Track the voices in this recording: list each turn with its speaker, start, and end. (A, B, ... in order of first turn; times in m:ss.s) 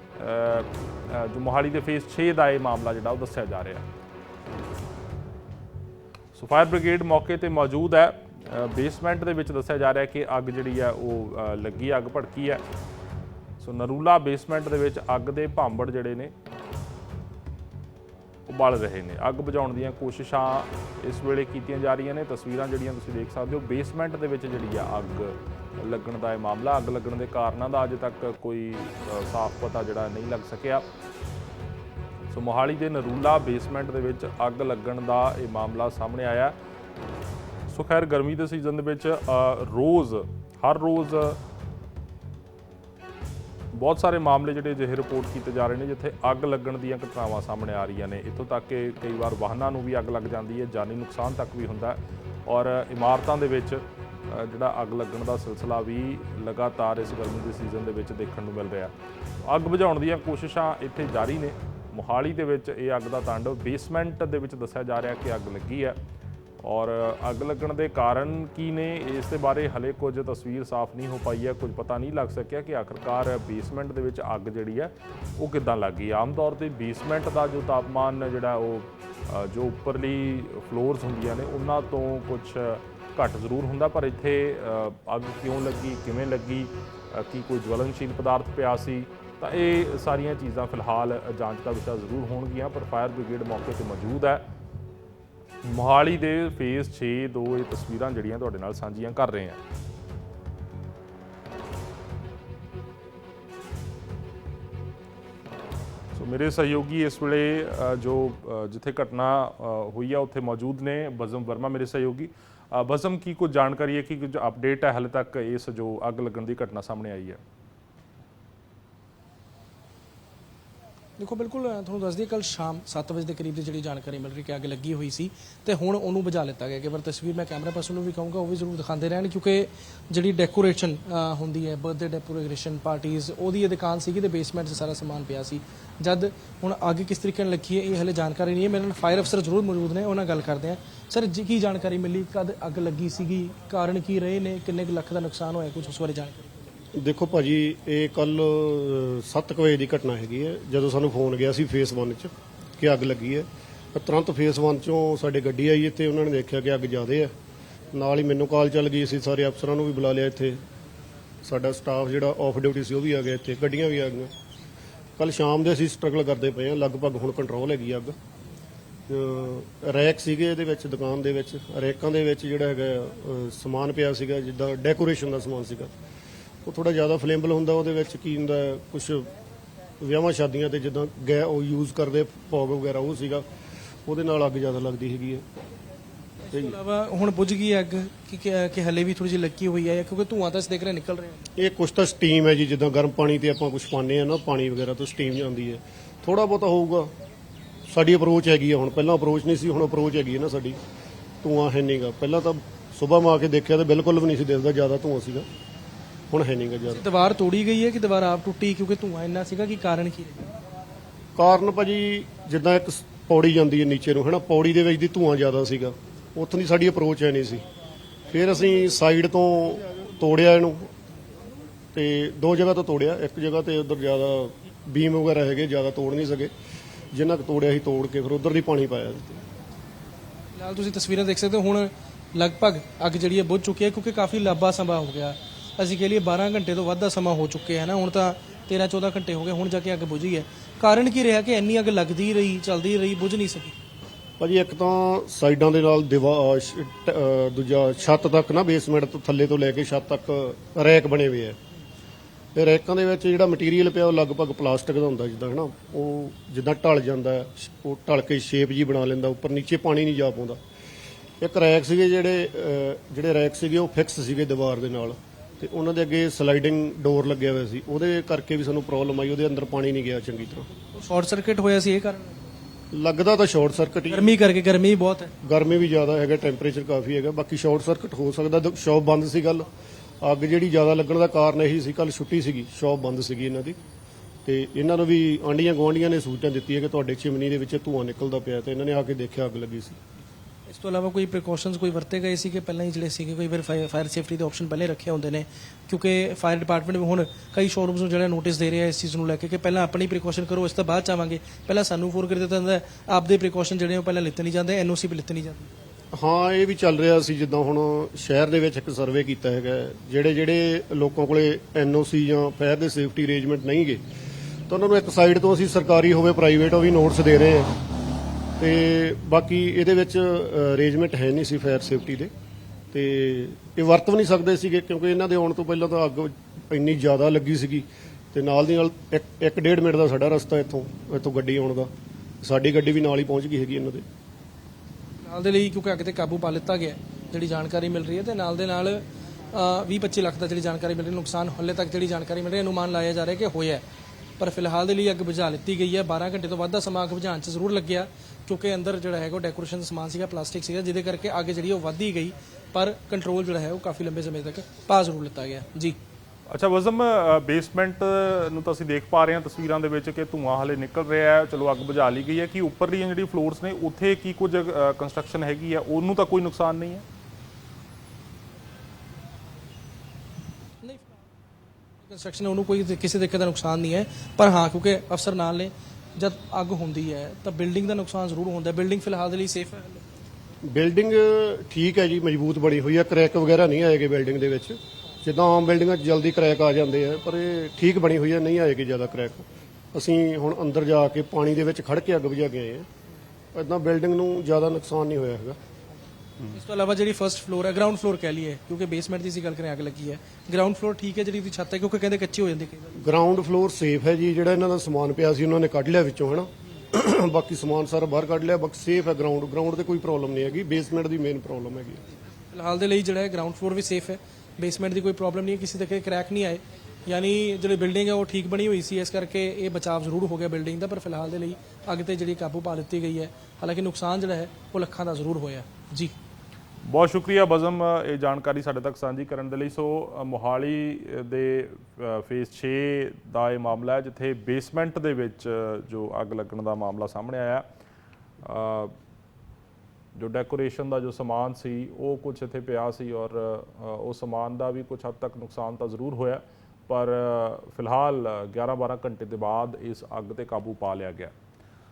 0:00.1-0:03.8 A
0:06.3-0:12.6 A
0:13.6-0:16.3 A
0:18.4-0:30.8 A
0:32.3-0:36.5 A
0:37.7-0:41.4 A
0:43.7-0:58.9 A
0:59.4-1:06.0 A
1:06.6-1:34.4 A
1:35.6-1:39.6 A
1:46.1-1:57.4 A
2:01.2-2:26.5 B
2:26.9-2:37.3 C
2:37.9-2:40.6 C
2:41.4-2:44.3 C
2:45.2-2:48.2 C
2:49.1-2:55.9 C
2:56.6-2:59.3 C
3:00.0-3:03.4 C
3:04.1-3:05.4 C
3:06.4-3:11.5 B
3:06.5-3:06.8 C
3:11.6-3:17.1 C
3:17.9-3:20.8 C
3:21.4-3:25.4 C
3:26.3-3:27.0 C
3:26.9-3:30.5 B
3:31.4-3:37.6 C
3:38.3-3:40.9 C
3:41.9-3:46.5 C
3:47.1-3:49.4 C
3:50.5-4:03.7 B
4:04.4-4:11.6 C
4:12.5-4:20.6 C
4:21.4-4:30.7 C
4:30.9-4:32.4 B
4:32.9-4:34.4 C
4:34.1-4:35.3 B
4:35.4-4:39.7 C
4:40.2-4:43.8 C
4:44.4-4:50.0 C
4:50.7-5:05.7 B
5:06.1-5:14.0 C
5:14.7-5:17.7 C
5:18.6-5:22.3 C
5:22.9-5:31.9 C
5:32.4-5:34.0 C
5:35.2-5:43.8 B
5:44.4-5:56.0 B
5:56.5-6:07.0 A
6:10.8-6:11.2 B
6:12.0-6:20.0 B
6:20.6-6:32.9 C
6:33.5-6:35.6 C
6:36.5-6:42.9 B
6:43.0-6:52.0 C
6:52.5-7:06.1 B
7:06.8-7:17.6 A
7:18.4-7:18.9 A
7:20.1-7:31.3 A